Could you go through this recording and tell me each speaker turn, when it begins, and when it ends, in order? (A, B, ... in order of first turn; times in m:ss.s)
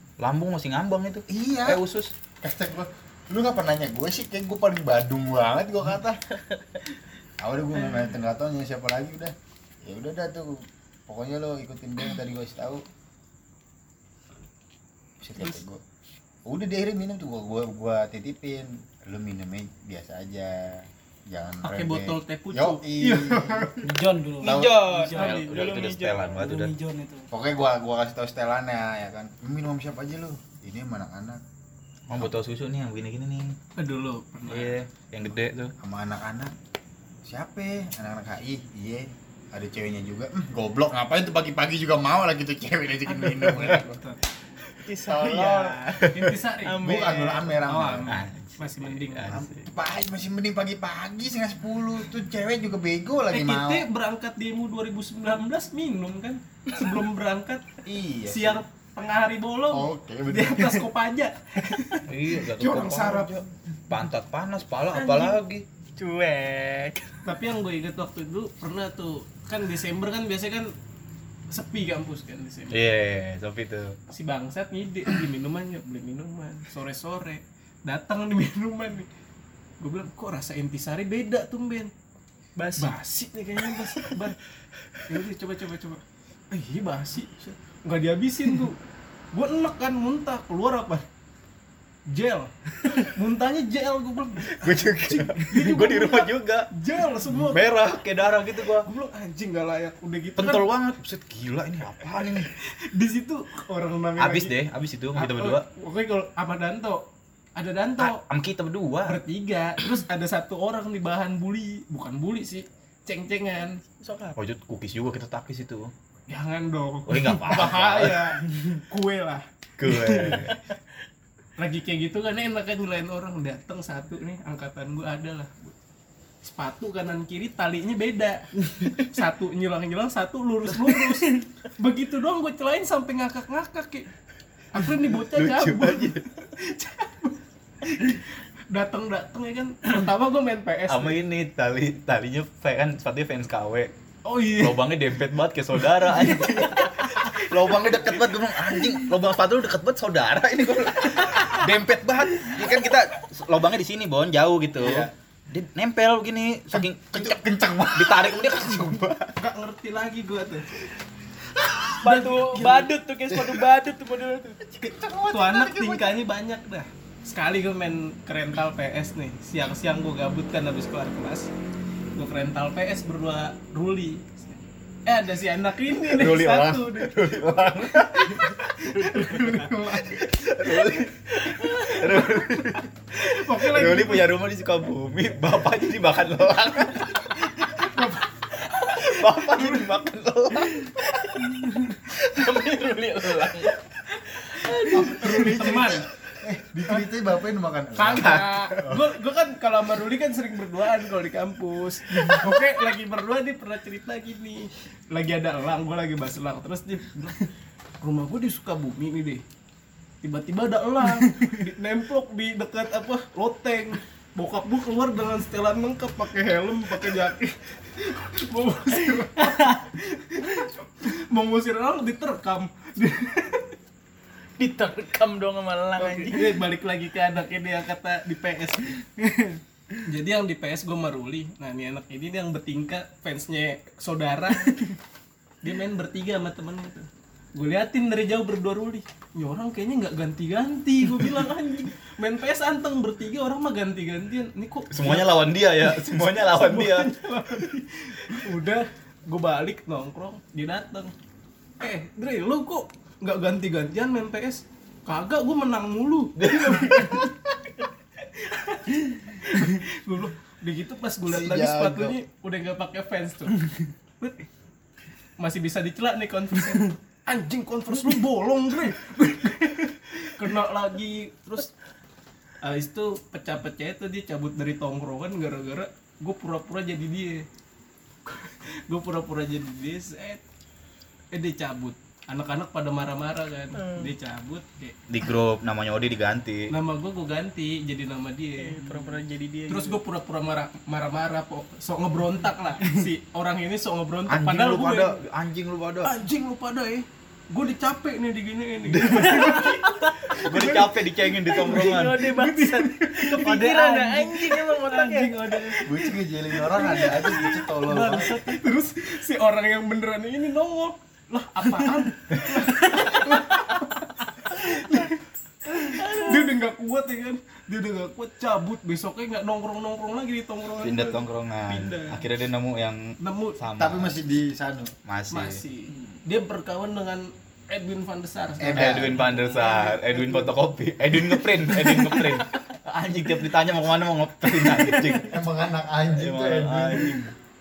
0:00.2-0:02.1 A
0:01.3-0:01.8 B
0:02.4-0:06.2 B
0:07.4-0:12.8 B
0:15.2-0:15.8 B
0:16.5-0:23.7 B
0:21.6-0:23.9 C
0:23.8-0:25.7 D
0:24.4-0:26.4 E
0:24.4-0:24.9 B
0:25.1-0:26.7 A
0:26.3-0:27.3 D
0:27.3-0:31.4 B
0:32.1-0:33.6 A
0:33.8-0:34.8 C
0:34.5-0:35.7 A
0:35.8-0:36.5 B
0:37.2-0:44.0 B
0:43.1-0:44.2 C
0:44.9-0:47.5 E
0:45.0-0:45.8 B
0:46.0-0:49.4 C
0:46.8-0:48.2 B
0:48.1-0:49.7 A
0:49.3-0:53.9 B
0:53.3-0:57.6 C
0:57.8-0:58.6 B
0:58.3-1:03.4 C
0:59.7-1:00.8 B
1:02.1-1:05.6 A
1:05.0-1:05.3 E
1:05.0-1:05.4 C
1:06.0-1:07.2 E
1:07.2-1:10.7 C
1:11.5-1:12.8 C
1:12.7-1:14.0 A
1:14.1-1:19.1 C
1:19.8-1:21.9 C
1:22.6-1:22.9 E
1:22.8-1:24.4 C
1:25.0-1:28.8 C
1:29.3-1:31.0 C
1:32.1-1:37.8 C
1:34.6-1:36.7 A
1:37.3-1:38.9 A
1:38.5-1:40.7 C
1:40.4-1:42.5 A
1:42.6-1:44.6 C
1:44.2-1:45.6 A
1:45.1-1:48.2 C
1:48.0-1:49.2 A
1:49.0-1:53.8 C
1:54.0-1:54.4 E
1:54.4-1:55.9 A
1:56.3-2:00.6 C
1:57.1-1:58.4 A
1:59.8-2:00.6 A
2:01.6-2:05.8 C
2:06.4-2:14.1 C
2:14.7-2:21.2 C
2:15.1-2:16.3 A
2:20.9-2:23.9 A
2:24.2-2:24.9 C
2:24.6-2:39.3 A
2:26.0-2:27.2 C
2:34.8-2:35.1 B
2:36.7-2:39.0 B
2:39.4-2:40.7 C
2:41.9-2:42.9 C
2:42.0-2:44.6 E
2:44.8-2:45.9 B
2:45.3-2:51.5 C
2:52.2-2:57.2 C
2:56.0-3:07.9 A
2:58.0-3:00.9 C
3:01.6-3:02.4 C
3:03.2-3:04.4 C
3:07.7-3:08.3 C
3:08.9-3:11.1 A
3:12.2-3:13.8 E
3:14.6-3:15.5 E
3:14.6-3:16.1 C
3:14.9-3:19.0 B
3:15.4-3:15.7 D
3:18.0-3:27.5 C
3:18.2-3:18.4 A
3:28.0-3:29.4 C
3:30.2-3:43.8 C
3:44.6-3:46.6 E
3:46.0-3:49.0 C
3:50.0-3:55.0 C
3:55.6-4:11.1 C
4:04.9-4:07.1 A
4:11.8-4:17.3 C
4:16.4-4:17.3 A
4:18.4-4:24.5 C
4:21.3-4:22.2 A
4:25.4-4:31.7 C
4:32.6-4:37.5 C
4:38.3-4:40.4 C
4:41.3-4:45.0 C
4:43.8-4:44.1 E
4:45.1-4:46.7 A
4:46.7-4:55.2 C
4:48.6-4:50.0 E
4:54.3-4:56.1 A
4:56.0-5:22.2 C
4:58.9-4:59.7 A
4:59.2-5:00.4 E
5:00.3-5:02.2 A
5:01.5-5:05.8 E
5:05.9-5:08.5 B
5:15.9-5:16.4 E
5:20.8-5:24.2 A
5:23.2-5:23.6 C
5:23.8-5:24.9 B
5:25.1-5:25.6 A
5:25.3-5:30.6 C
5:28.6-5:29.2 B
5:28.7-5:35.4 A
5:31.3-5:32.3 C
5:35.2-5:37.2 B
5:36.1-5:37.4 A